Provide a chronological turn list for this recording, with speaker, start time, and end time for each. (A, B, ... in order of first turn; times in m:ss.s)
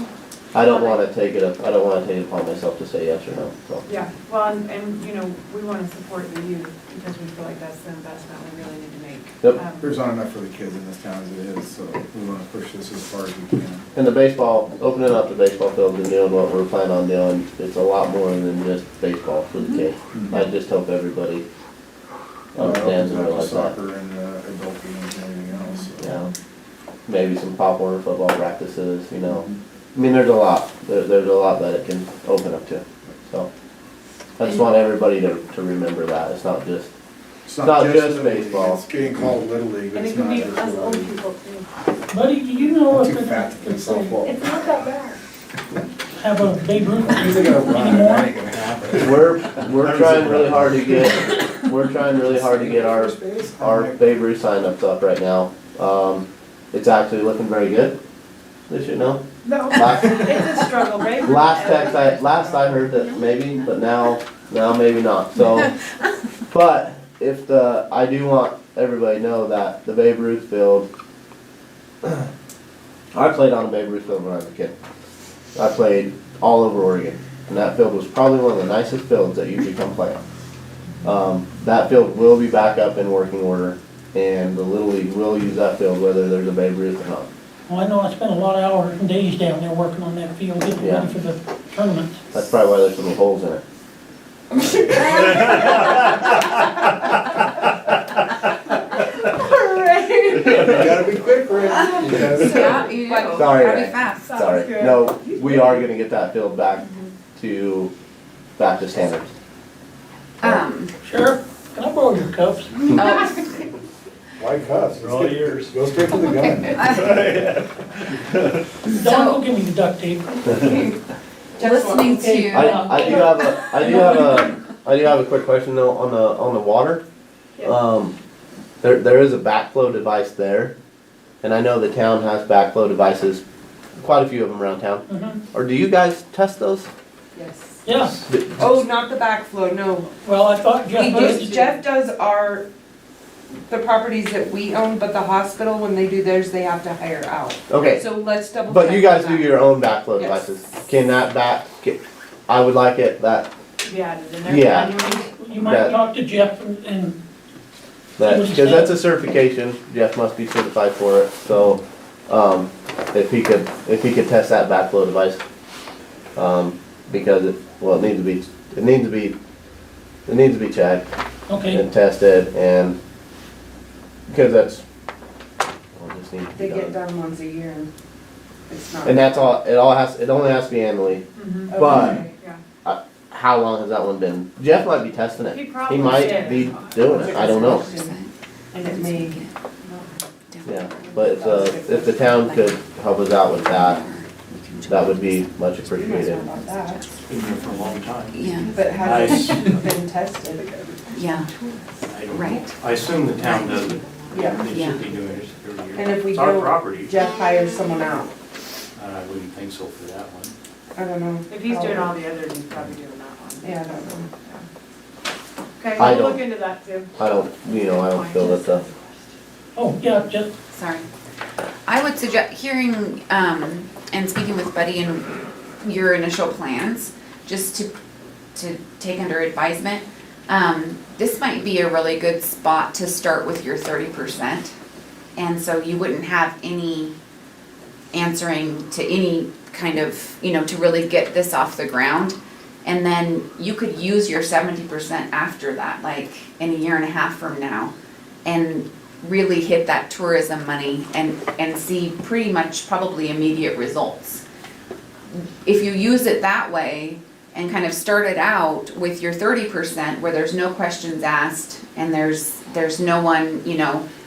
0:00.5-0:03.9 A
0:00.6-0:01.0 B
0:03.8-0:10.0 B
0:09.8-0:13.9 C
0:14.0-0:21.4 A
0:22.5-0:23.7 A
0:22.6-0:26.2 C
0:26.0-0:26.3 A
0:27.1-0:33.5 A
0:34.4-0:36.9 A
0:37.5-0:41.2 C
0:37.6-0:38.8 A
0:39.9-0:41.7 B
0:42.1-0:44.7 D
0:42.9-0:44.4 C
0:44.2-0:45.2 B
0:46.2-0:48.4 D
0:47.0-0:49.2 C
0:48.5-0:49.1 E
0:49.0-0:58.0 A
0:49.8-0:51.3 C
0:52.2-0:54.1 C
0:58.7-1:00.6 A
0:59.4-1:03.0 B
1:01.2-1:05.7 A
1:06.5-1:10.9 A
1:13.2-1:14.7 A
1:15.6-1:20.2 A
1:21.0-1:27.3 A
1:27.7-1:32.2 D
1:30.8-1:31.1 A
1:32.3-1:33.6 A
1:34.9-1:35.8 F
1:39.2-1:40.8 F
1:40.5-1:43.0 C
1:41.7-1:44.4 G
1:42.2-1:43.7 F
1:43.3-1:47.9 A
1:44.2-1:45.6 B
1:48.6-1:49.3 A
1:50.4-1:50.9 G
1:51.0-1:53.0 D
1:53.0-1:53.7 G
1:54.4-1:56.9 C
1:55.0-1:56.2 E
1:56.7-1:57.7 E
1:56.8-1:57.1 G
1:58.9-1:59.4 G
1:58.9-2:00.9 D
2:01.6-2:02.1 F
2:01.6-2:03.2 G
2:02.0-2:04.4 D
2:02.5-2:07.0 A
2:07.6-2:08.2 A
2:08.8-2:10.7 A
2:11.4-2:13.4 A
2:14.0-2:16.9 A
2:15.1-2:15.4 D
2:17.4-2:17.8 F
2:17.8-2:18.2 D
2:18.3-2:18.7 A
2:18.5-2:20.1 F
2:20.2-2:21.8 D
2:20.9-2:22.7 F
2:23.7-2:29.6 F
2:27.7-2:28.0 A
2:28.7-2:33.5 A
2:30.2-2:30.4 F
2:33.8-2:36.0 B
2:34.4-2:35.0 A
2:35.0-2:37.2 D
2:35.6-2:35.9 A
2:38.2-2:45.4 A
2:38.2-2:39.0 D
2:46.4-2:49.4 A
2:50.3-2:51.0 A
2:51.5-2:51.8 D
2:51.7-2:53.0 A
2:54.3-2:54.8 A
2:56.0-2:56.9 A
2:56.6-2:57.9 F
2:58.7-2:59.5 F
2:59.0-3:02.2 A
3:01.4-3:02.6 B
3:01.7-3:02.3 F
3:02.8-3:07.9 A
3:05.5-3:07.3 B
3:07.0-3:08.2 F
3:07.4-3:09.5 G
3:08.7-3:10.0 F
3:10.5-3:11.2 G
3:10.7-3:14.0 A
3:11.1-3:12.2 F
3:12.2-3:12.8 G
3:13.6-3:15.5 G
3:14.9-3:16.4 A
3:15.9-3:17.0 F
3:16.2-3:17.2 G
3:17.2-3:18.4 E
3:17.5-3:18.0 B
3:18.3-3:19.4 G
3:18.6-3:20.0 B
3:18.7-3:20.7 F
3:19.0-3:19.8 E
3:20.5-3:21.8 B
3:21.1-3:21.5 G
3:22.1-3:27.2 E
3:22.3-3:22.8 G
3:24.3-3:24.6 F
3:24.7-3:25.1 G
3:26.0-3:28.3 F
3:27.5-3:28.2 B
3:29.0-3:30.6 E
3:31.0-3:32.2 F
3:31.5-3:34.6 B
3:33.6-3:34.3 F
3:35.8-3:37.1 B
3:36.0-3:36.4 A
3:37.2-3:38.8 A
3:37.6-3:39.2 B
3:39.8-3:40.5 D
3:40.7-3:41.1 G
3:41.9-3:47.9 G
3:48.6-3:54.8 G
3:55.4-3:57.1 G
3:58.1-4:07.9 G
4:08.4-4:14.4 G
4:15.3-4:24.0 G